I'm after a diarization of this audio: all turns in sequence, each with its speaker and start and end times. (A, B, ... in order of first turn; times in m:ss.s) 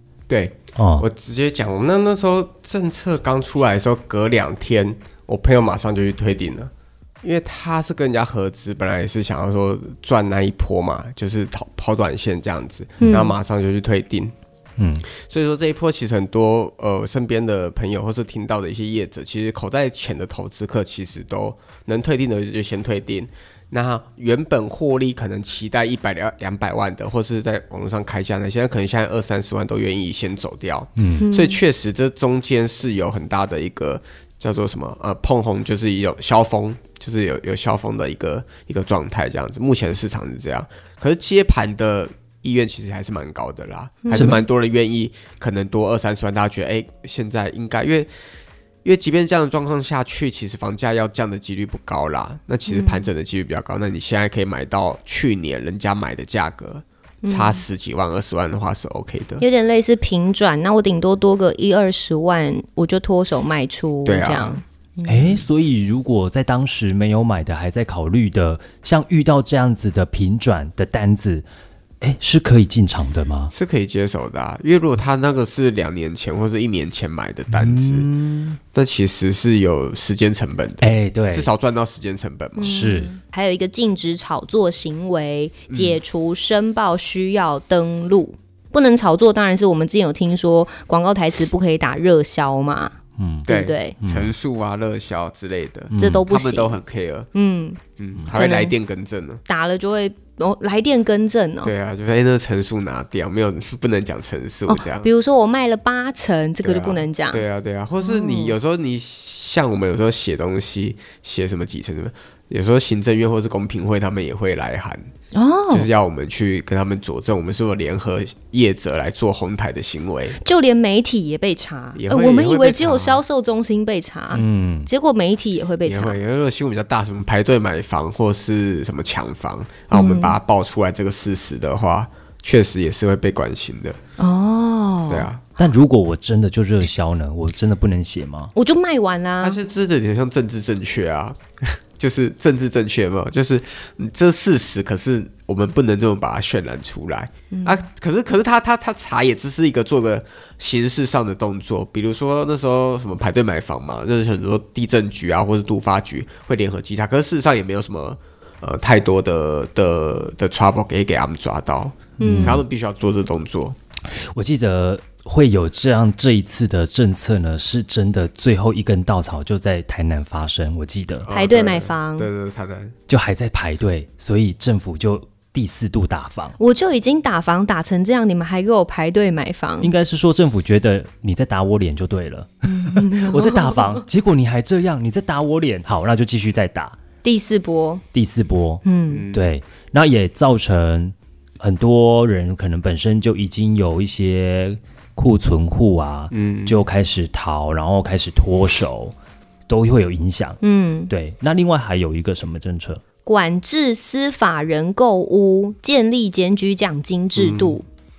0:00.3-0:06.7 A
0:00.8-0:01.1 B
0:07.2-0:14.3 A
0:13.0-0:13.4 C
0:14.8-0:15.1 B
0:15.2-0:48.1 A
0:31.0-0:31.2 B
0:31.2-0:31.6 C
0:44.0-0:44.4 C
0:44.1-0:44.4 B
0:48.8-0:59.4 A
0:52.7-0:53.1 C
0:57.2-0:57.6 C
0:59.4-1:05.4 C
1:04.0-1:04.6 A
1:05.0-1:11.4 B
1:12.0-1:13.5 B
1:13.5-1:18.1 A
1:17.5-1:18.6 B
1:18.7-1:22.8 A
1:20.8-1:21.5 B
1:22.6-1:32.9 C
1:22.6-1:23.1 B
1:25.7-1:26.0 A
1:33.2-1:33.5 B
1:33.5-1:34.0 C
1:33.5-1:37.3 A
1:34.0-1:34.3 B
1:35.9-1:36.2 B
1:36.0-1:36.8 C
1:37.3-1:38.7 C
1:38.0-1:39.4 A
1:39.5-1:41.7 C
1:41.6-1:45.1 A
1:44.7-1:47.4 C
1:46.6-1:55.1 A
1:48.0-1:48.6 C
1:55.3-1:55.9 C
1:55.7-2:00.4 A
2:00.4-2:06.2 C
2:02.0-2:03.2 A
2:04.3-2:04.9 B
2:05.8-2:14.0 A
2:09.9-2:10.4 C
2:14.2-2:15.3 C
2:15.1-2:15.4 A
2:15.6-2:18.5 B
2:18.6-2:19.6 C
2:19.4-2:43.8 A
2:27.5-2:27.9 C
2:42.2-2:42.6 C
2:42.2-2:42.6 B
2:44.2-2:51.3 B
2:51.2-2:53.0 A
2:51.3-2:52.3 C
2:53.1-2:56.6 B
2:56.6-2:59.9 C
2:59.8-3:07.0 B
3:02.7-3:04.0 C
3:07.2-3:08.0 C
3:08.1-3:19.2 B
3:08.8-3:09.3 C
3:09.1-3:09.4 A
3:16.3-3:16.8 A
3:19.7-3:23.0 B
3:20.6-3:21.1 C
3:23.3-3:27.8 C
3:27.4-3:27.8 A